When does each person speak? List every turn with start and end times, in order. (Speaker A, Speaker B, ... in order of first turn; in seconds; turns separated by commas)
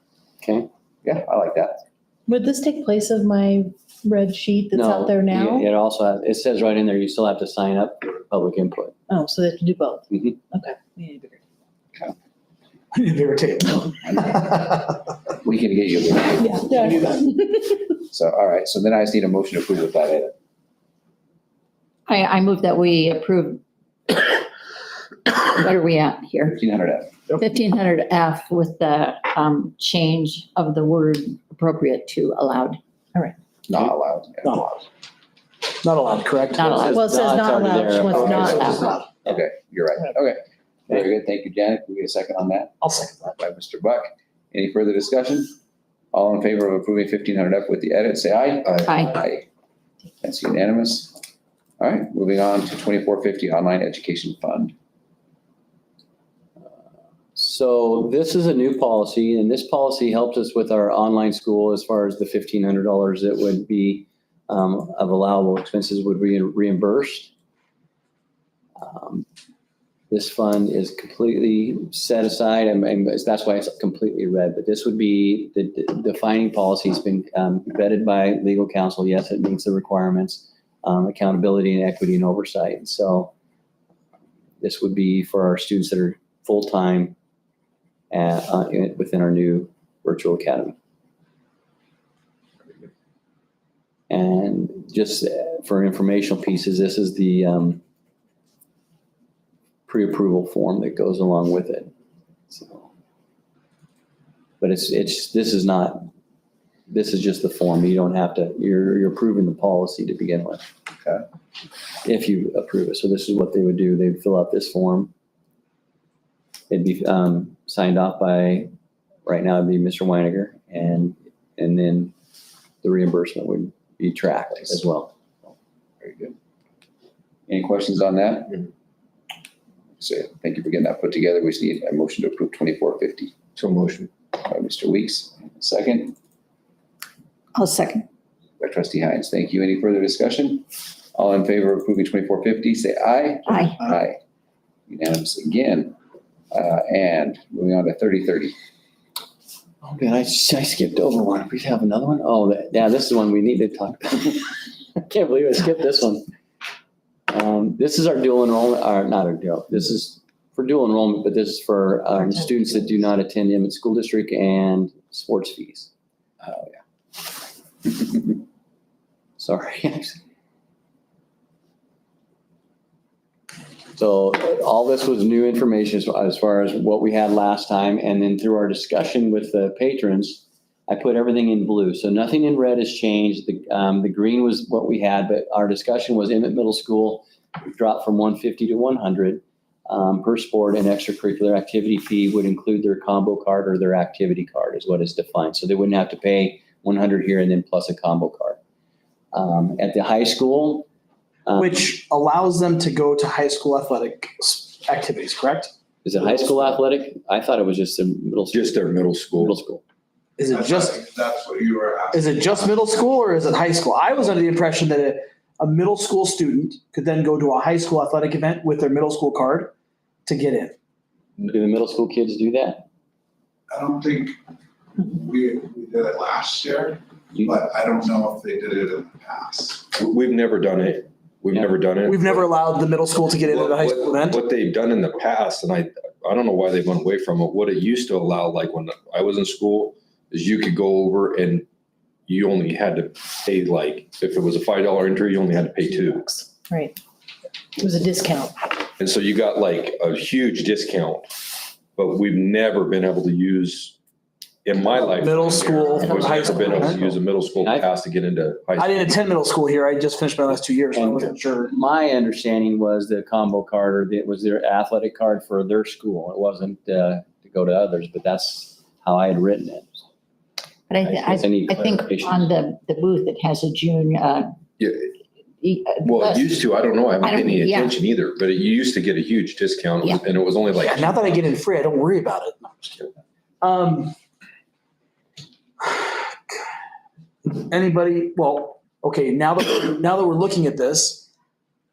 Speaker A: 0.4-0.7, Speaker B: 1.0-1.8, Speaker C: 2.3-5.7, Speaker A: 4.7-8.9, Speaker C: 9.1-11.4, Speaker D: 12.9-14.5, Speaker B: 14.0-17.2, Speaker C: 16.5-17.7, Speaker B: 18.0-20.3, Speaker E: 22.1-24.4, Speaker E: 25.2-26.6, Speaker B: 26.5-27.2, Speaker E: 27.4-32.8, Speaker B: 33.7-34.5, Speaker D: 34.4-34.8, Speaker D: 35.8-36.6, Speaker E: 36.5-37.1, Speaker A: 36.8-39.3, Speaker C: 36.9-39.0, Speaker B: 38.2-42.7, Speaker E: 38.4-38.9, Speaker D: 42.8-43.3, Speaker B: 43.4-45.5, Speaker B: 46.1-49.5, Speaker E: 48.9-49.1, Speaker B: 50.2-51.1, Speaker B: 51.8-54.7, Speaker A: 57.4-67.3, Speaker A: 68.8-69.3, Speaker A: 70.1-83.3, Speaker A: 84.6-87.1, Speaker A: 88.1-90.7, Speaker A: 94.1-97.8, Speaker A: 99.9-101.9, Speaker A: 102.5-102.9, Speaker A: 104.6-106.1, Speaker A: 106.9-110.6, Speaker A: 112.0-115.1, Speaker A: 116.7-118.7, Speaker A: 119.2-122.1, Speaker A: 122.8-125.1, Speaker B: 126.0-126.3, Speaker B: 127.5-128.7, Speaker B: 130.0-133.3, Speaker F: 133.6-134.1, Speaker B: 134.3-136.1, Speaker E: 137.5-138.0, Speaker B: 138.6-144.2, Speaker E: 143.4-143.8, Speaker B: 144.9-145.9, Speaker B: 146.5-148.5, Speaker A: 149.8-156.3, Speaker A: 157.3-165.9, Speaker A: 169.4-170.2, Speaker A: 173.9-198.6, Speaker A: 199.3-200.9, Speaker A: 201.4-201.9, Speaker D: 201.6-205.7, Speaker A: 206.0-209.8, Speaker F: 208.5-209.6, Speaker D: 210.4-210.8, Speaker G: 210.5-213.0, Speaker D: 212.1-219.7, Speaker D: 220.2-220.7, Speaker A: 221.5-222.8, Speaker G: 223.7-224.3, Speaker G: 225.0-229.8, Speaker A: 227.3-227.6, Speaker F: 229.9-232.5, Speaker D: 232.1-234.3, Speaker F: 233.4-241.7, Speaker F: 242.3-246.3, Speaker C: 246.0-247.0, Speaker C: 247.8-248.6, Speaker F: 249.0-251.4, Speaker F: 251.9-253.9, Speaker F: 254.6-259.1, Speaker D: 255.2-256.4, Speaker C: 256.0-256.8, Speaker A: 256.6-256.9, Speaker A: 257.6-257.9, Speaker D: 258.8-261.6, Speaker A: 260.9-270.0, Speaker E: 270.9-274.5, Speaker F: 271.0-272.0, Speaker A: 271.3-272.5, Speaker F: 274.8-275.1, Speaker E: 275.6-276.6, Speaker F: 276.0-281.4, Speaker E: 277.2-278.0, Speaker D: 280.8-282.7, Speaker D: 283.6-284.1, Speaker D: 287.5-291.2